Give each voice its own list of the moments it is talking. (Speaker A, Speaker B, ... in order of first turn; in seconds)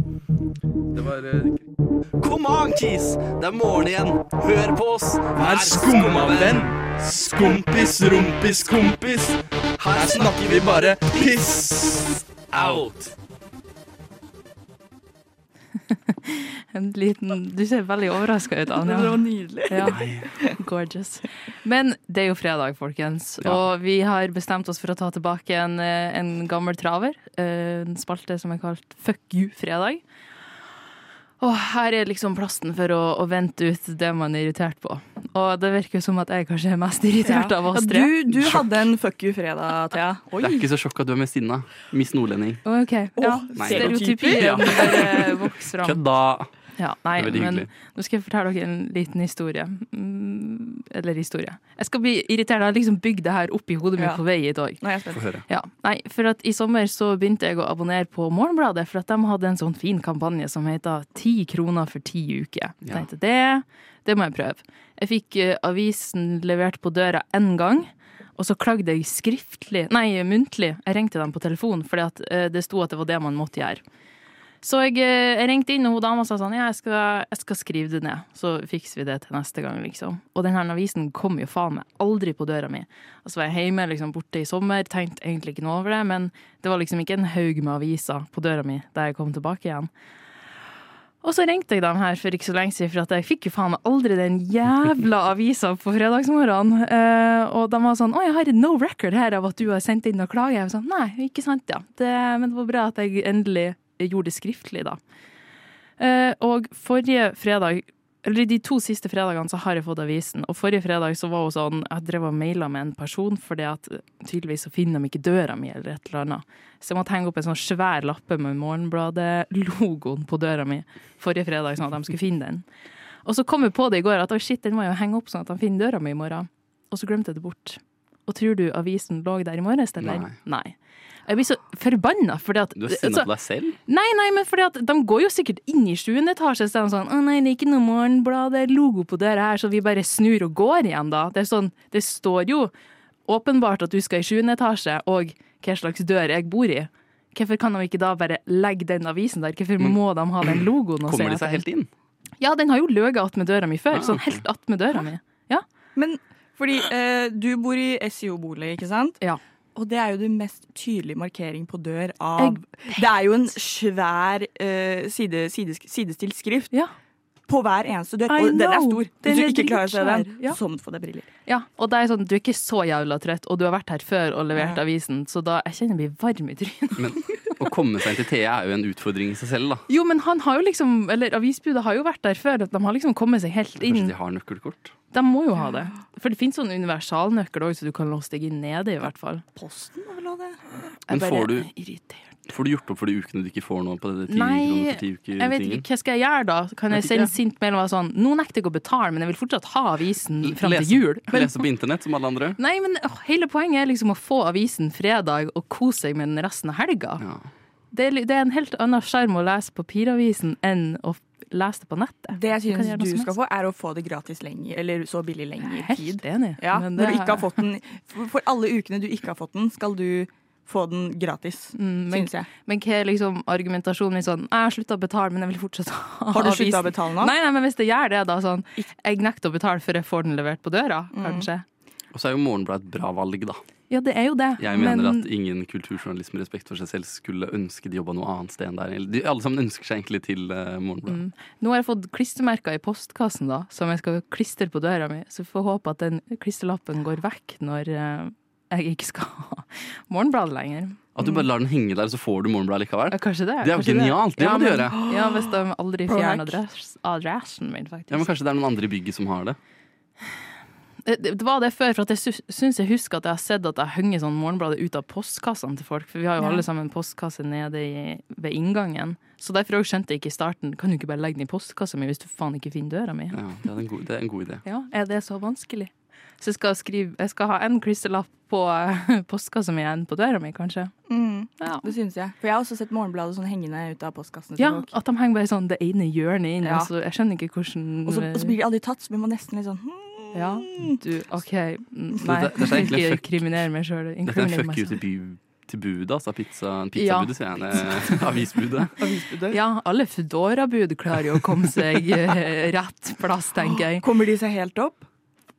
Speaker A: 0.9-1.7, 2.2-13.1, 19.8-20.3, 38.4-38.7, 40.4-42.6, 43.6-46.5, 47.2-47.7, 55.1-55.4, 130.0-130.3, 132.8-133.8, 149.8-151.9, 153.9-154.4, 177.0-179.8, 183.8-184.9, 191.1-191.7, 192.5-195.8, 196.9-197.3, 200.4-202.6, 207.2-207.5, 232.1-233.6, 234.6-241.2, 251.2-255.0, 258.1-259.6, 273.3-274.6, 292.2-293.5, 294.3-298.9
Speaker B: 16.1-30.0, 31.4-38.1, 42.6-46.0, 46.8-54.8, 55.5-73.8, 74.6-89.9, 91.2-105.0, 106.0-122.6, 123.2-130.8, 131.3-133.3, 133.9-142.7, 143.3-151.6, 152.4-155.7, 162.4-163.0, 168.3-170.6, 171.5-177.2, 179.9-184.1, 185.1-189.4, 191.1-192.3, 194.3-201.6, 202.6-207.2, 207.9-213.3, 215.6-217.6, 221.8-231.7, 233.9-235.3, 241.1-251.0, 253.1-258.3, 261.1-273.4, 274.6-280.9, 281.6-281.9, 284.6-288.6, 290.3-295.0, 296.9-298.4, 299.5-304.1
Speaker C: 18.8-20.5, 37.2-40.7, 43.2-45.3, 54.0-54.2, 54.8-55.2, 156.0-159.2, 159.8-166.7, 167.5-171.3, 174.6-174.8, 189.6-190.6, 212.3-222.5, 226.3-227.3, 231.1-231.5, 255.0-255.5, 256.1-256.6, 266.4-266.6, 281.1-284.9, 286.6-286.9, 288.1-291.0, 299.0-299.6, 303.9-305.1